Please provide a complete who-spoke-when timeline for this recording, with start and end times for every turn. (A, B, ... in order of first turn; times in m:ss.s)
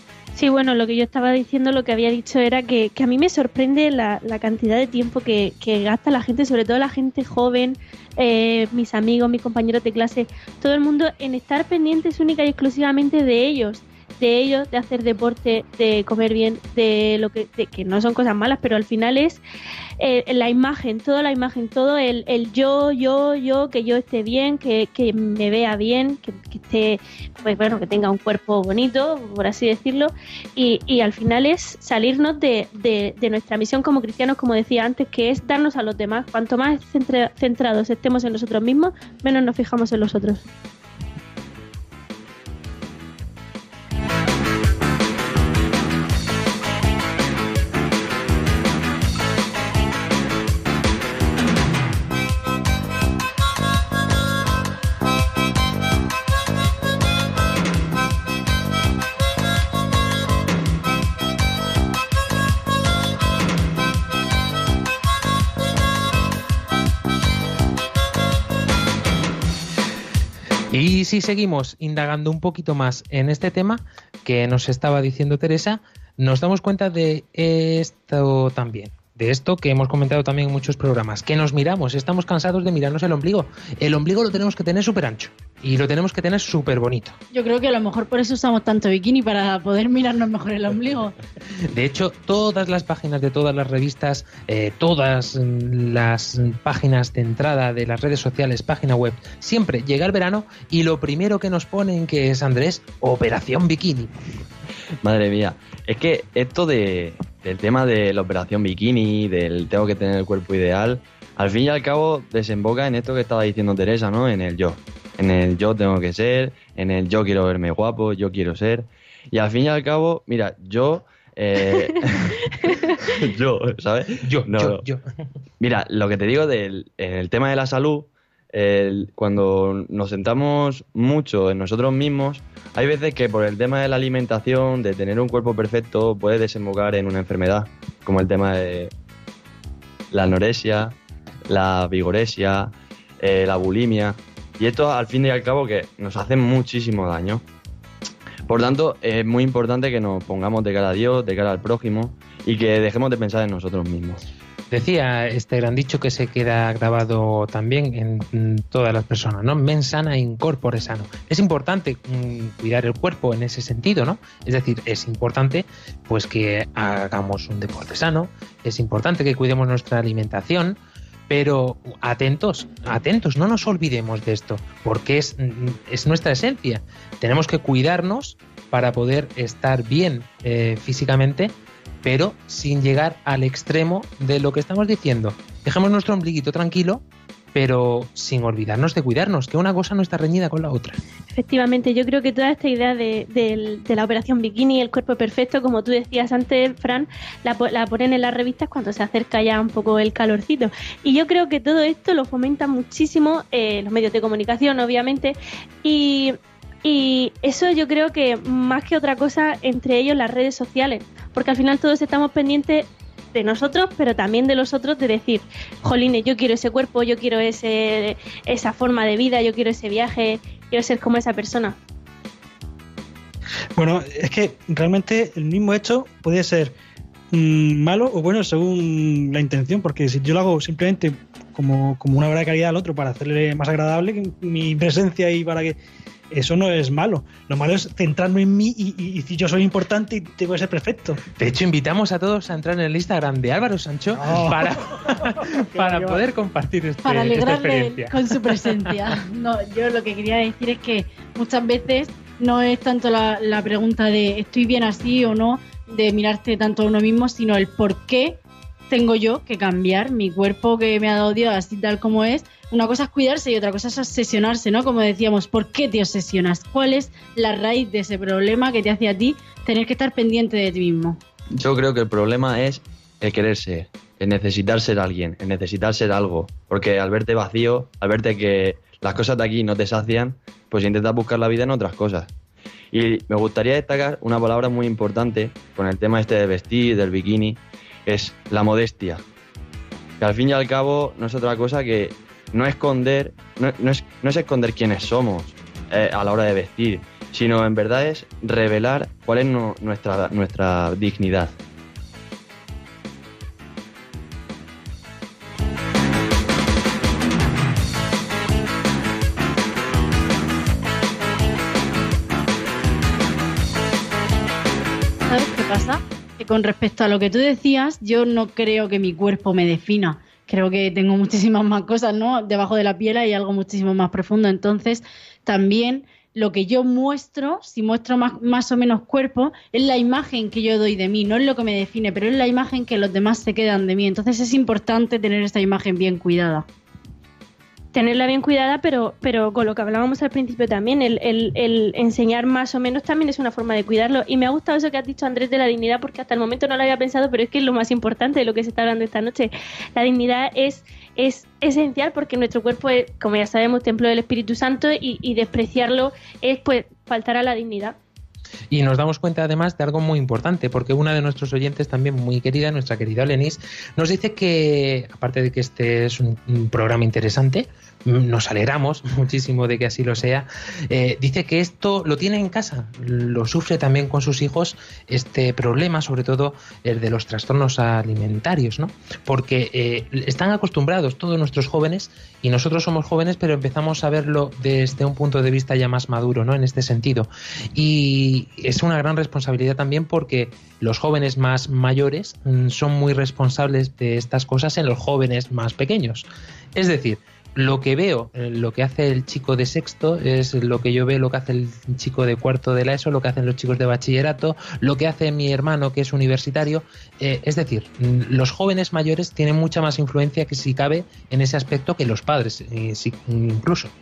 0:00.3-0:19.4 A
0:20.0-0:40.4 A
1:10.7-1:27.2 B
1:27.3-1:31.2 C
1:31.7-1:44.1 B
1:45.0-2:04.8 D
2:04.2-2:05.0 B
2:05.6-2:18.9 D
2:20.1-2:20.9 D
2:21.5-2:27.4 D
2:28.5-2:34.2 D
2:34.7-3:07.0 B
3:07.5-3:11.0 B
3:11.3-3:41.8 A
3:43.8-3:46.7 E
3:47.3-3:55.8 E
3:56.3-4:01.2 E
4:01.4-4:08.9 B
4:04.2-4:04.7 E
4:07.0-4:31.2 C
4:31.5-4:42.3 D
4:42.9-4:49.2 D
4:50.2-5:01.5 D
5:15.3-5:36.6 C
5:37.9-5:58.0 A
5:58.7-6:53.9 B